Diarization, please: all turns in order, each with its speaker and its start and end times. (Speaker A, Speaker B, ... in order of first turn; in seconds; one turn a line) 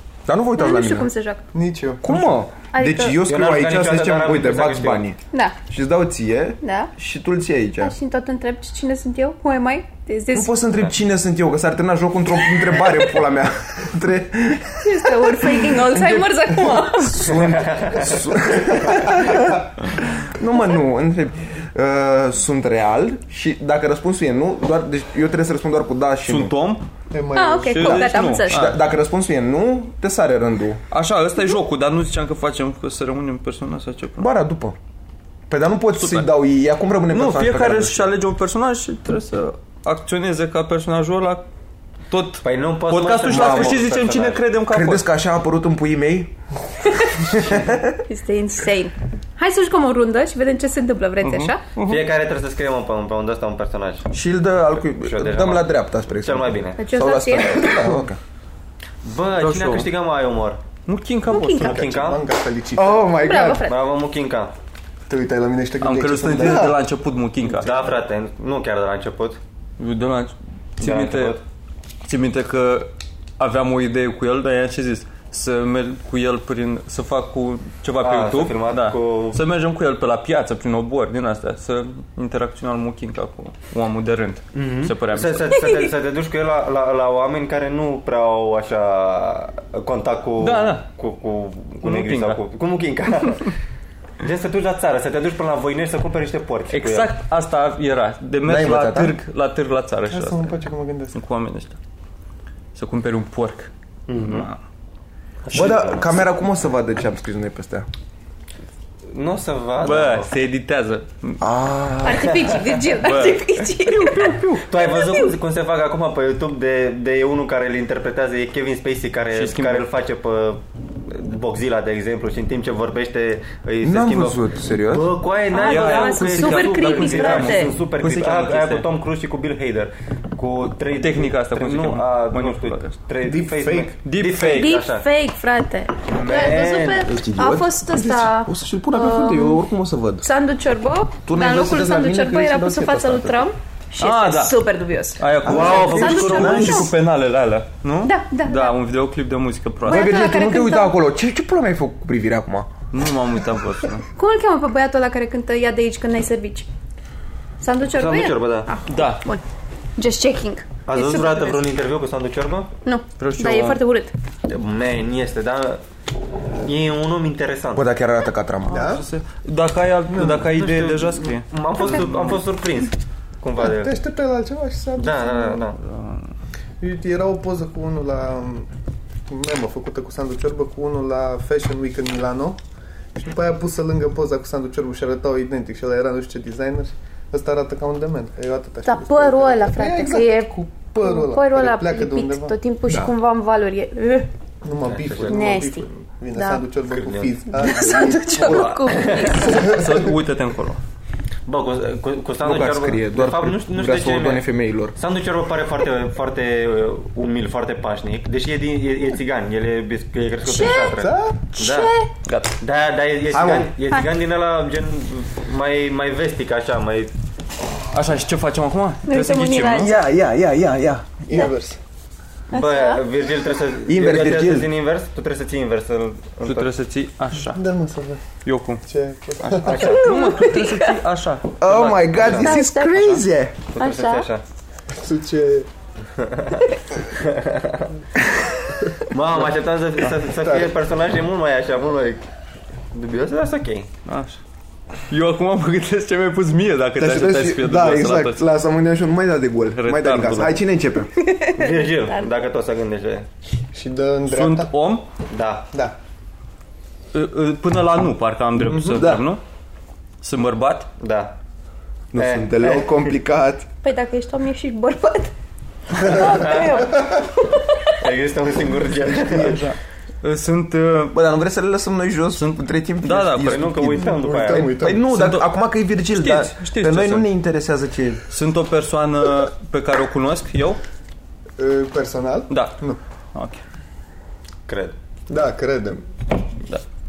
Speaker A: 0.2-1.1
Speaker B: 0.6-1.4
Speaker C: 1.5-2.0
Speaker A: 2.0-5.2
Speaker B: 2.7-3.2
Speaker D: 3.2-5.0
Speaker A: 5.7-7.9
Speaker B: 6.6-6.9
Speaker B: 7.8-10.6
Speaker A: 10.3-26.5
Speaker B: 14.8-17.4
Speaker D: 17.5-18.1
Speaker E: 26.2-26.8
Speaker C: 27.1-28.1
Speaker B: 27.4-28.6
Speaker E: 27.7-28.8
Speaker A: 28.0-30.8
Speaker E: 30.9-34.3
Speaker A: 34.2-34.8
Speaker A: 35.5-38.1
Speaker E: 36.0-36.4
Speaker E: 37.1-41.5
Speaker E: 42.1-45.0
Speaker D: 42.4-44.4
Speaker A: 43.3-43.8
Speaker A: 44.7-46.4
Speaker A: 47.3-48.0
Speaker B: 48.1-51.6
Speaker E: 51.2-52.1
Speaker D: 51.9-54.1
Speaker A: 54.1-58.2
Speaker D: 54.9-57.7
Speaker B: 56.8-57.8
Speaker D: 59.0-60.6
Speaker E: 59.4-59.9
Speaker E: 60.9-61.9
Speaker B: 61.3-61.7
Speaker C: 61.4-63.1
Speaker D: 61.6-62.2
Speaker A: 62.8-63.7
Speaker B: 63.2-63.8
Speaker D: 63.6-64.5
Speaker C: 65.1-66.8
Speaker E: 65.8-67.9
Speaker D: 67.6-69.4
Speaker E: 69.8-71.4
Speaker D: 70.8-71.4
Speaker E: 72.1-85.7
Speaker D: 78.0-79.4
Speaker D: 84.5-93.5
Speaker E: 90.4-90.9
Speaker E: 91.8-92.4
Speaker D: 94.2-97.1
Speaker E: 96.7-100.6
Speaker A: 98.4-99.2
Speaker C: 100.1-101.2
Speaker E: 101.2-101.8
Speaker E: 102.8-104.6
Speaker D: 104.1-104.5
Speaker D: 105.4-106.2
Speaker A: 105.5-107.9
Speaker D: 109.1-110.3
Speaker E: 109.8-111.4
Speaker A: 111.4-112.7
Speaker B: 112.0-115.3
Speaker E: 113.0-113.5
Speaker A: 113.6-114.7
Speaker D: 114.7-135.1
Speaker E: 119.3-119.9
Speaker A: 123.8-125.2
Speaker B: 125.5-127.7
Speaker E: 125.5-128.9
Speaker E: 131.0-132.9
Speaker C: 133.2-134.0
Speaker E: 134.1-134.8
Speaker B: 134.4-139.6
Speaker D: 136.2-137.1
Speaker E: 136.2-136.6
Speaker A: 137.0-140.3
Speaker B: 140.2-146.9
Speaker A: 141.3-143.5
Speaker E: 144.0-150.1
Speaker D: 145.4-146.7
Speaker A: 145.4-146.9
Speaker B: 148.0-148.8
Speaker B: 149.8-150.9
Speaker A: 149.8-152.7
Speaker E: 152.9-154.1
Speaker B: 154.2-156.7
Speaker B: 157.6-159.4
Speaker D: 157.9-158.7
Speaker E: 158.9-159.2
Speaker B: 160.0-161.7
Speaker D: 160.9-162.7
Speaker B: 162.8-164.1
Speaker E: 163.2-163.8
Speaker D: 164.5-165.8
Speaker D: 166.6-167.8
Speaker A: 167.7-168.9
Speaker C: 168.7-169.1
Speaker E: 168.7-172.4
Speaker C: 170.1-170.6
Speaker D: 170.5-173.9
Speaker C: 173.6-175.7
Speaker D: 175.0-175.8
Speaker E: 175.8-176.3
Speaker C: 176.8-178.7
Speaker C: 179.3-182.6
Speaker C: 183.2-192.6
Speaker B: 188.8-194.3
Speaker C: 194.6-198.8
Speaker D: 194.8-195.6
Speaker B: 195.3-196.7
Speaker D: 196.9-197.4
Speaker B: 197.5-199.7
Speaker E: 198.3-200.8
Speaker D: 198.9-199.6
Speaker D: 201.5-211.9
Speaker A: 202.4-204.9
Speaker B: 210.4-211.0
Speaker C: 210.9-211.5
Speaker B: 211.5-212.1
Speaker E: 212.2-212.5
Speaker D: 212.6-217.1
Speaker A: 213.3-213.7
Speaker E: 217.9-220.0
Speaker B: 219.1-219.9
Speaker A: 219.8-221.2
Speaker C: 221.3-221.8
Speaker B: 222.5-223.0
Speaker D: 222.5-226.7
Speaker A: 223.8-224.7
Speaker E: 226.4-227.6
Speaker C: 227.5-228.2
Speaker E: 228.4-228.8
Speaker C: 228.8-230.0
Speaker E: 229.4-232.4
Speaker D: 229.6-230.0
Speaker B: 229.8-230.9
Speaker A: 231.6-233.6
Speaker D: 232.2-232.5
Speaker B: 232.3-233.2
Speaker D: 233.7-234.4
Speaker B: 233.8-234.3
Speaker C: 234.9-235.7
Speaker D: 236.2-237.9
Speaker D: 239.1-242.2
Speaker C: 240.4-240.7
Speaker D: 242.9-243.9
Speaker E: 244.1-244.4
Speaker E: 245.1-248.4
Speaker A: 247.0-251.1
Speaker E: 249.7-250.6
Speaker B: 251.2-252.3
Speaker D: 251.5-253.3
Speaker C: 253.7-254.7
Speaker E: 254.3-255.1
Speaker D: 255.3-255.7
Speaker E: 257.1-259.4
Speaker C: 258.6-259.0
Speaker A: 258.9-259.3
Speaker E: 260.2-260.9
Speaker D: 261.0-261.4
Speaker A: 262.1-263.7
Speaker D: 262.1-263.1
Speaker B: 263.8-265.3
Speaker B: 265.9-267.9
Speaker D: 266.2-266.8
Speaker C: 266.9-267.2
Speaker D: 268.0-269.7
Speaker C: 269.2-269.7
Speaker E: 270.2-271.2
Speaker A: 271.1-278.2
Speaker E: 272.3-273.9
Speaker D: 273.4-274.8
Speaker C: 274.0-275.1
Speaker E: 275.0-275.5
Speaker E: 276.1-277.3
Speaker E: 278.3-280.8
Speaker C: 281.6-283.0
Speaker E: 282.5-282.8
Speaker E: 283.3-283.6
Speaker D: 284.7-284.9
Speaker C: 285.3-286.1